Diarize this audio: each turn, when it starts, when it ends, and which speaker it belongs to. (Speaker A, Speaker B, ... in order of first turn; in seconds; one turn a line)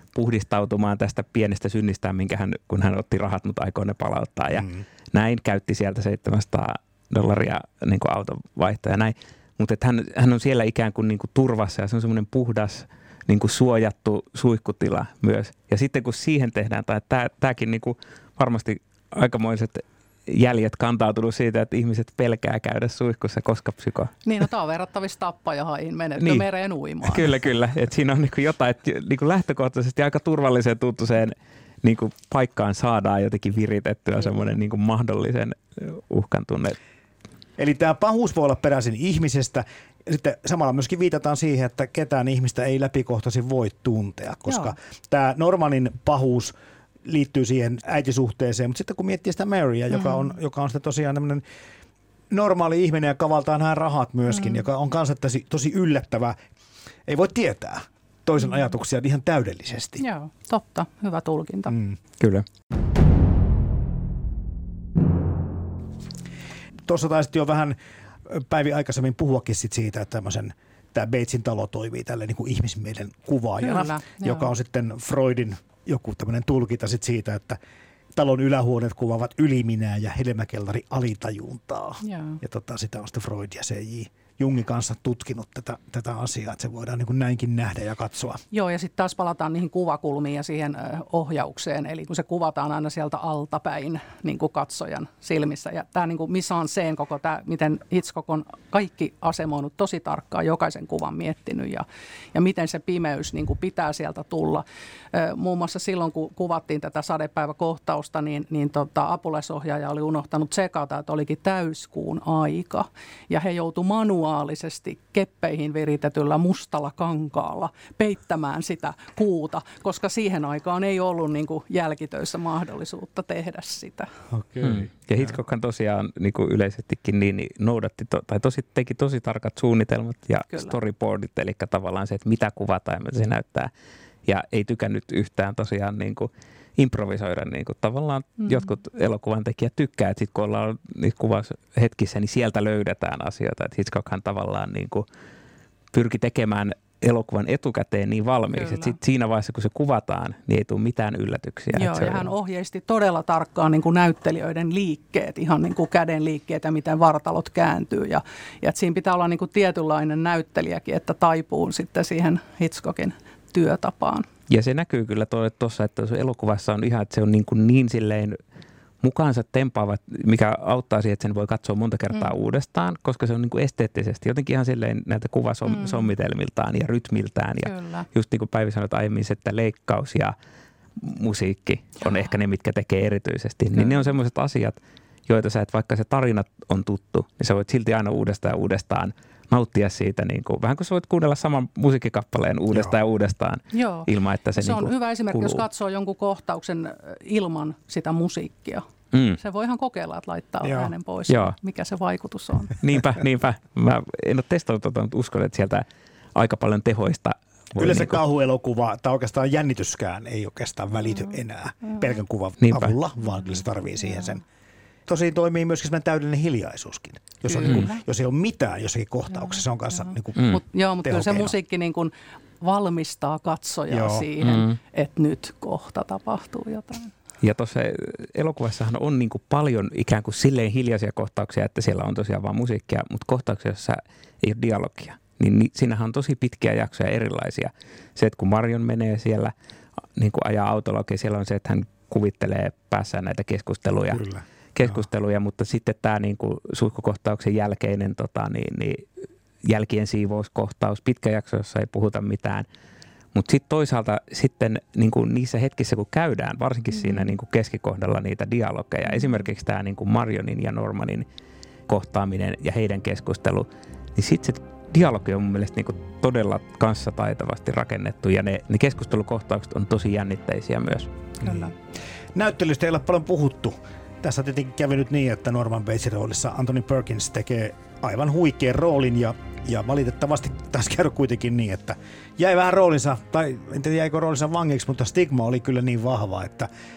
Speaker A: 0.1-24.1
Speaker B: 4.5-4.8
Speaker C: 24.2-27.3
Speaker A: 26.2-26.4
Speaker A: 27.0-36.8
Speaker B: 37.6-51.4
Speaker C: 44.5-44.7
Speaker C: 49.9-50.3
Speaker B: 52.3-56.4
Speaker B: 57.1-60.0
Speaker C: 60.0-61.8
Speaker B: 61.7-62.0
Speaker A: 62.2-62.4
Speaker B: 66.9-77.6
Speaker C: 73.6-74.5
Speaker B: 78.1-88.4
Speaker C: 82.0-82.4
Speaker C: 88.5-124.1
Speaker B: 124.3-124.9
Speaker A: 124.6-133.7
Speaker A: 134.2-145.0
Speaker C: 138.4-138.7
Speaker A: 145.9-152.3
Speaker C: 148.5-148.9
Speaker C: 151.7-164.2
Speaker A: 164.5-168.4
Speaker A: 169.0-180.3
Speaker C: 175.7-176.1
Speaker C: 177.6-178.1
Speaker A: 180.9-195.6
Speaker C: 183.8-184.1
Speaker B: 192.7-193.0
Speaker C: 193.7-198.9
Speaker A: 199.1-199.4
Speaker C: 199.4-202.8
Speaker B: 200.6-200.9
Speaker A: 201.3-201.6
Speaker A: 202.8-208.2
Speaker B: 207.8-214.4
Speaker A: 212.6-212.9
Speaker B: 215.1-221.5
Speaker C: 217.4-218.0
Speaker C: 219.4-227.1
Speaker B: 223.9-224.3
Speaker A: 224.4-224.8
Speaker A: 227.4-239.5
Speaker A: 240.1-249.0
Speaker B: 244.1-244.9
Speaker A: 249.6-252.7
Speaker A: 253.3-261.2
Speaker C: 257.0-257.3
Speaker C: 259.1-259.4
Speaker A: 261.9-271.1
Speaker B: 271.4-271.7
Speaker C: 271.4-271.7
Speaker B: 272.3-286.7